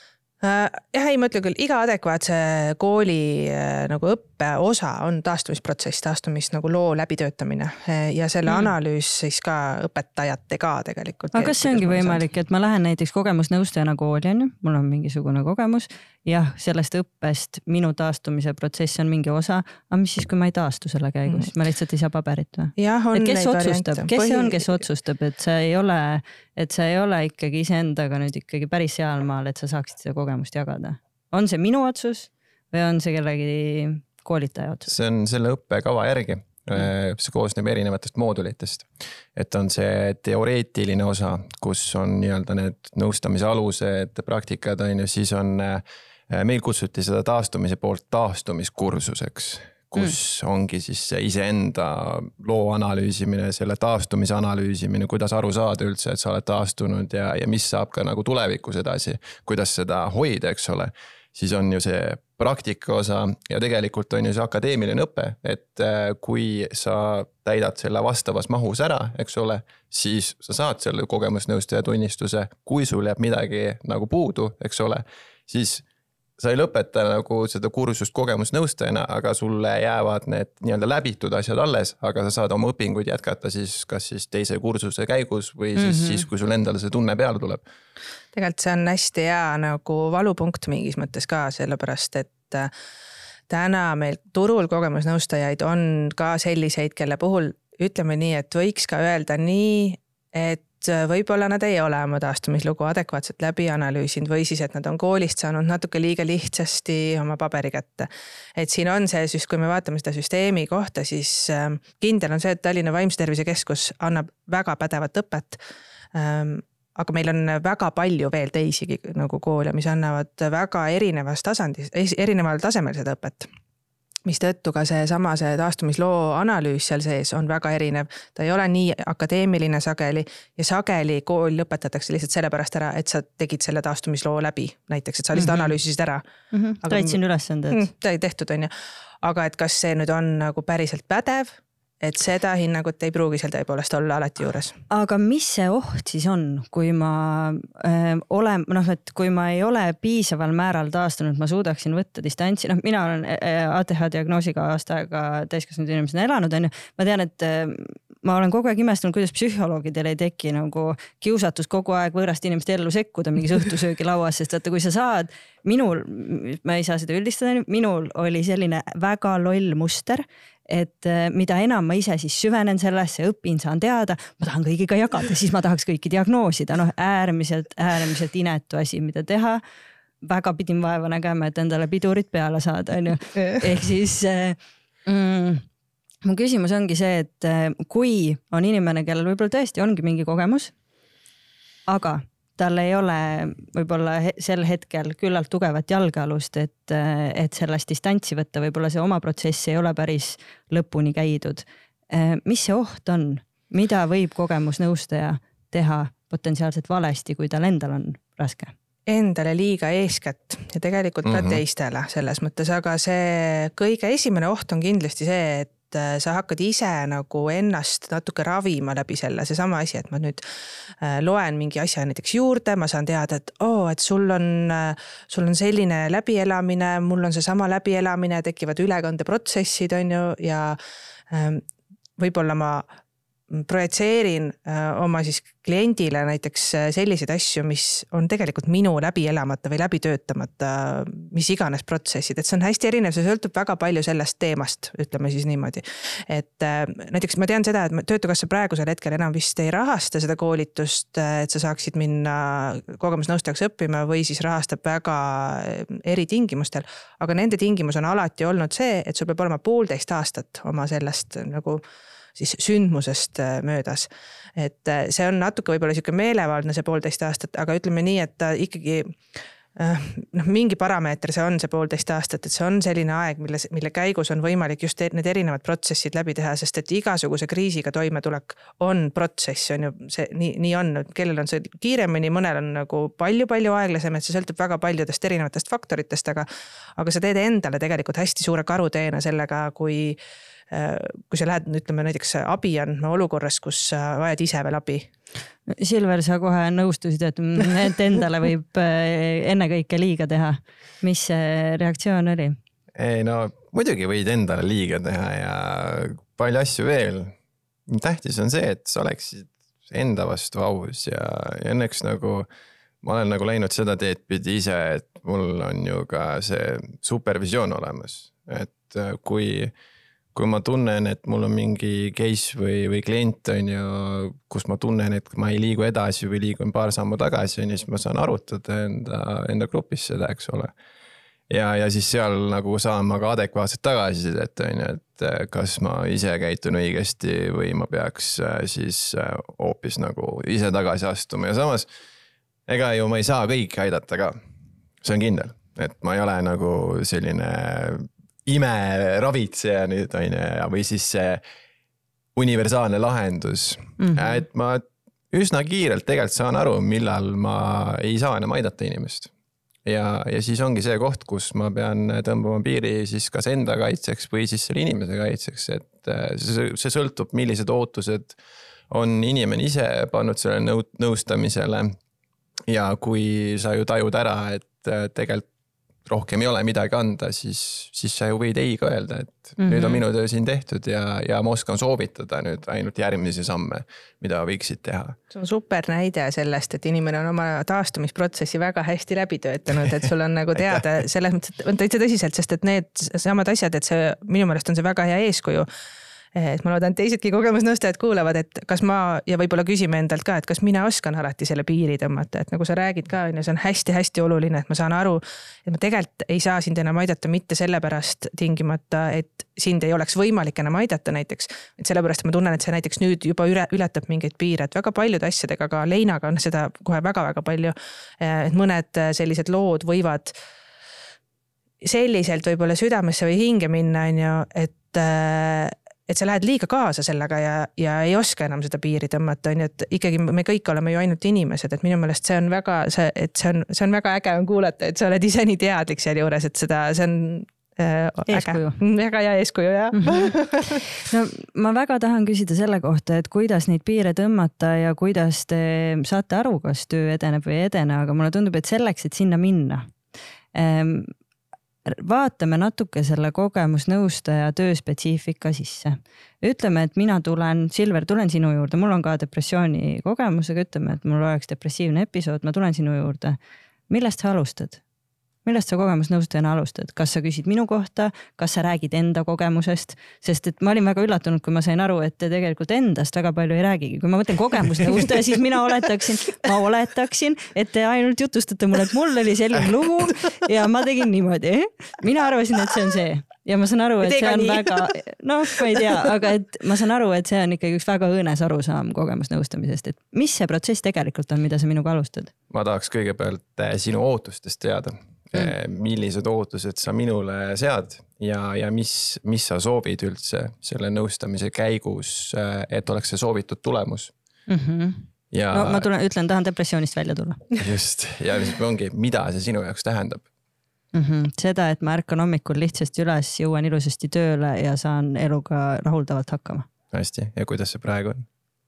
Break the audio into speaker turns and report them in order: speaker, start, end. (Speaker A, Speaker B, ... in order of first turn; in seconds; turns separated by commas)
Speaker A: 0.4-12.2, Speaker B: 11.3-34.9, Speaker A: 22.8-24.8, Speaker C: 34.9-75.8, Speaker C: 76.4-87.6, Speaker B: 85.8-86.2, Speaker A: 88.3-92.7, Speaker A: 93.5-115.6, Speaker A: 116.1-123.5, Speaker A: 124.2-136.2, Speaker B: 135.3-135.7, Speaker B: 136.5-137.8, Speaker A: 136.8-137.2, Speaker A: 137.7-138.7, Speaker A: 139.2-144.8, Speaker B: 144.9-179.6, Speaker B: 180.2-185.7, Speaker B: 186.2-190.7, Speaker B: 191.9-208.7, Speaker A: 209.1-220.4, Speaker C: 211.3-211.6, Speaker A: 221.0-230.8, Speaker A: 231.3-231.6, Speaker A: 232.2-232.9, Speaker A: 233.5-261.8, Speaker A: 262.4-269.2, Speaker A: 269.8-290.2, Speaker A: 290.7-295.1, Speaker B: 295.7-302.6, Speaker C: 302.9-307.3, Speaker C: 307.9-312.5, Speaker C: 313.0-319.7, Speaker C: 320.3-330.7, Speaker C: 331.5-341.9, Speaker C: 342.7-344.4, Speaker C: 345.0-351.4, Speaker C: 352.4-359.3, Speaker B: 354.0-354.4, Speaker C: 359.9-368.4, Speaker C: 368.9-372.0, Speaker C: 372.7-375.4, Speaker C: 376.1-385.2, Speaker B: 379.6-380.0, Speaker A: 385.3-395.7, Speaker A: 396.3-420.3, Speaker A: 421.8-440.8, Speaker B: 438.3-438.8, Speaker B: 439.9-449.9, Speaker B: 450.5-451.1, Speaker B: 451.9-463.4, Speaker B: 463.9-464.8, Speaker B: 465.4-492.3, Speaker A: 484.0-484.9, Speaker C: 492.5-504.1, Speaker B: 504.5-507.4, Speaker C: 505.3-505.9, Speaker C: 507.6-510.2, Speaker B: 510.9-516.7, Speaker C: 516.9-518.3